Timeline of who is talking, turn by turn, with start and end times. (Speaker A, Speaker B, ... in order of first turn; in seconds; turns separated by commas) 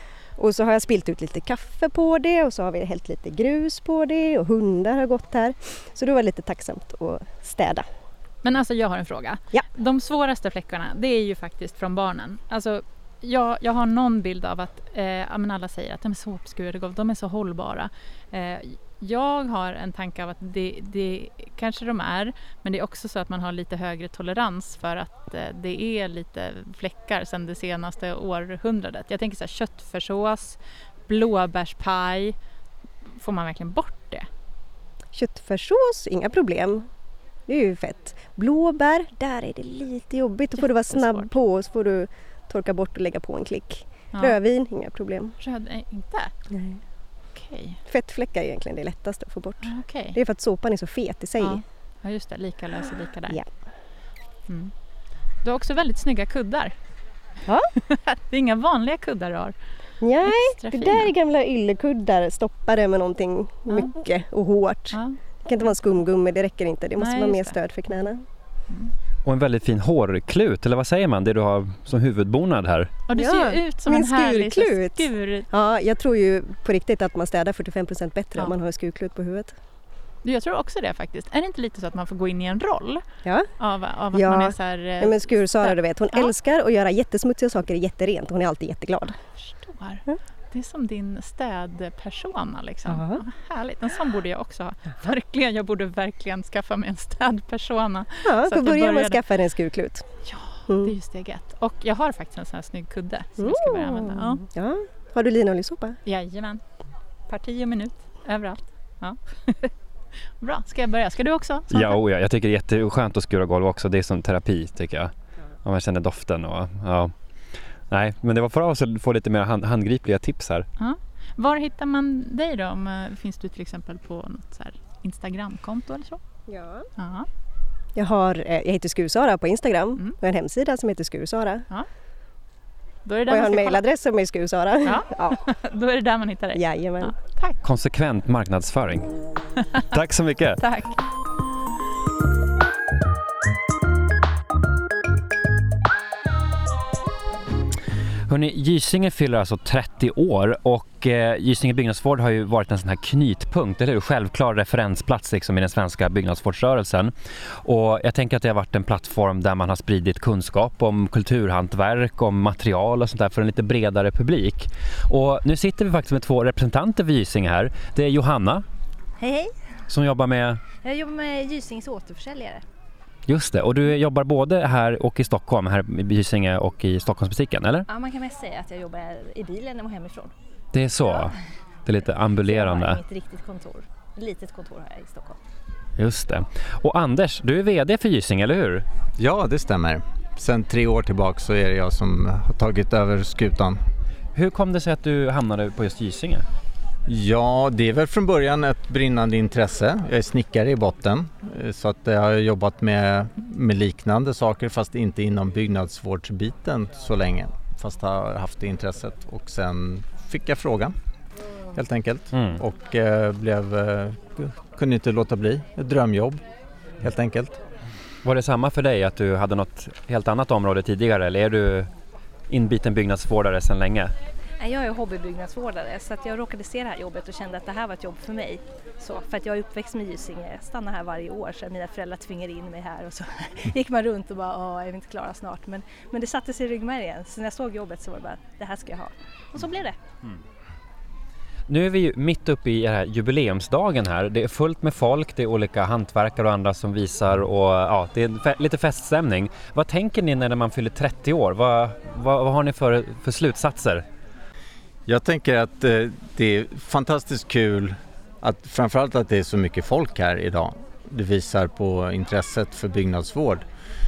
Speaker A: 0.4-7.9, Speaker B: 8.4-32.4, Speaker B: 33.2-34.3, Speaker A: 35.1-36.9, Speaker A: 37.5-45.3, Speaker B: 40.6-41.3, Speaker B: 45.4-46.3, Speaker A: 46.5-46.8, Speaker B: 47.4-47.8, Speaker A: 47.9-51.6, Speaker B: 49.6-50.2, Speaker B: 51.4-53.4, Speaker B: 55.4-56.8, Speaker B: 57.9-59.6, Speaker A: 60.0-68.2, Speaker B: 60.2-61.1, Speaker B: 63.7-64.0, Speaker B: 64.9-65.8, Speaker B: 67.0-67.6, Speaker C: 69.2-72.9, Speaker B: 73.1-75.5, Speaker A: 73.2-79.6, Speaker B: 80.2-83.0, Speaker B: 83.6-86.3, Speaker A: 84.1-89.2, Speaker B: 89.4-99.2, Speaker A: 92.9-93.2, Speaker A: 98.2-100.1, Speaker B: 100.2-104.4, Speaker A: 100.7-100.9, Speaker A: 103.4-106.0, Speaker B: 106.0-106.6, Speaker B: 107.3-109.7, Speaker B: 110.4-112.0, Speaker C: 111.7-115.1, Speaker C: 115.6-117.1, Speaker C: 117.9-120.7, Speaker B: 120.8-126.2, Speaker A: 126.5-126.9, Speaker B: 127.0-127.3, Speaker A: 128.0-131.7, Speaker B: 133.1-133.8, Speaker A: 133.3-135.4, Speaker B: 134.8-137.6, Speaker A: 136.6-137.2, Speaker C: 137.6-139.1, Speaker C: 139.9-140.6, Speaker B: 140.6-141.0, Speaker C: 148.3-168.7, Speaker D: 169.2-169.6, Speaker C: 169.9-170.6, Speaker D: 170.8-172.7, Speaker C: 173.3-177.9, Speaker D: 177.9-180.3, Speaker C: 180.7-181.3, Speaker D: 181.0-181.4, Speaker C: 181.8-183.0, Speaker D: 182.4-185.4, Speaker C: 186.0-188.9, Speaker E: 189.2-193.8, Speaker C: 194.3-196.5, Speaker E: 197.1-210.9, Speaker E: 211.7-216.4, Speaker C: 212.3-212.6, Speaker E: 217.0-217.6, Speaker C: 218.2-221.9, Speaker C: 222.5-224.1, Speaker D: 224.6-240.0, Speaker C: 241.7-254.1, Speaker E: 255.1-263.6